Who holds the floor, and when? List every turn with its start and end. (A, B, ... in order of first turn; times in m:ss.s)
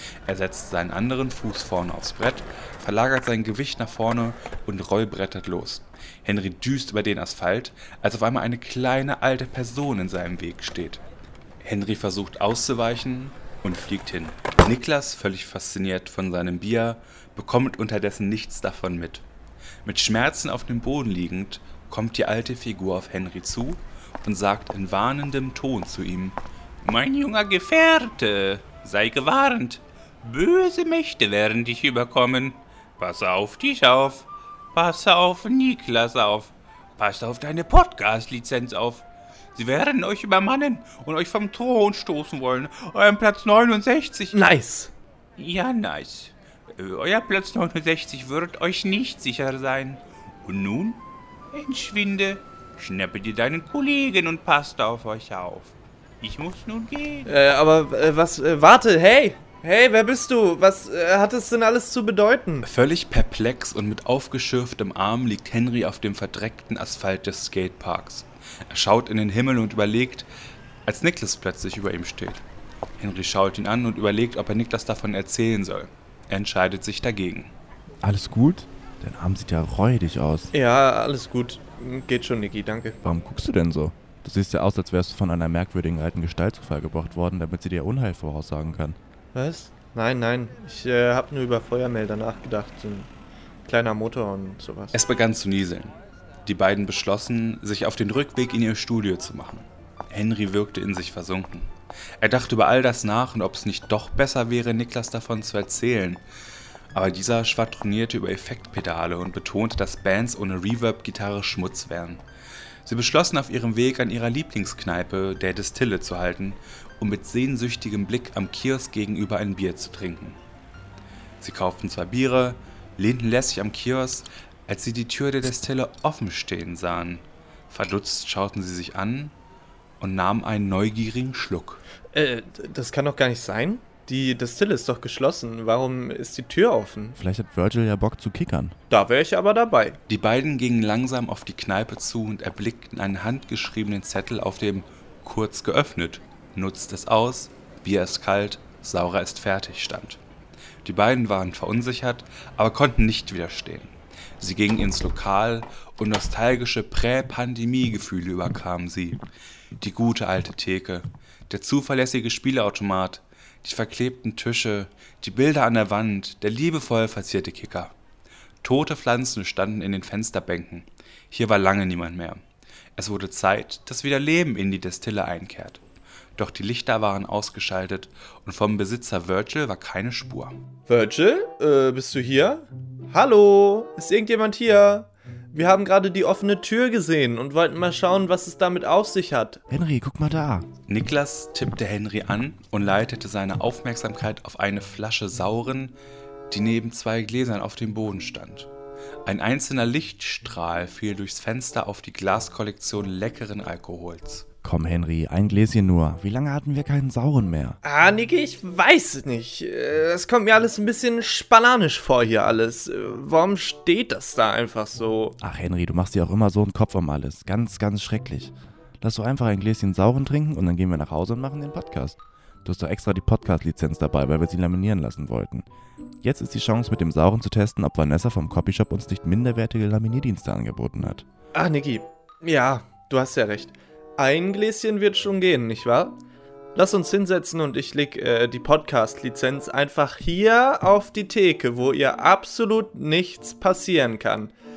0:00.3-0:11.0 A
0:11.6-0:19.2 A
0:19.8-0:44.4 A
0:44.3-0:44.9 B
0:45.4-0:57.3 A
0:57.2-1:02.7 B
1:02.6-1:10.3 A
1:10.8-1:12.4 A
1:13.0-1:17.5 A
1:18.0-1:20.5 C
1:20.5-1:23.0 B
1:23.0-1:29.0 C
1:29.3-1:33.1 B
1:33.6-1:35.0 B
1:34.9-1:46.2 A
1:46.9-1:52.2 A
1:52.8-2:00.4 A
2:01.4-2:09.3 A
2:10.0-2:11.8 A
2:12.1-2:17.2 B
2:17.2-2:18.8 C
2:18.9-2:20.0 B
2:20.1-2:30.2 A
2:30.8-2:39.2 A
2:39.8-2:47.9 A
2:48.6-2:52.4 A
2:53.0-2:55.8 A
2:56.4-3:00.6 A
3:00.9-3:09.6 B
3:09.7-3:10.7 C
3:10.9-3:16.0 A
3:16.5-3:18.7 A
3:19.2-3:24.4 A
3:24.6-3:27.8 C
3:27.8-3:35.4 B
3:35.4-3:45.6 C
3:46.2-3:51.2 C
3:51.5-3:56.2 B
3:56.7-4:04.5 B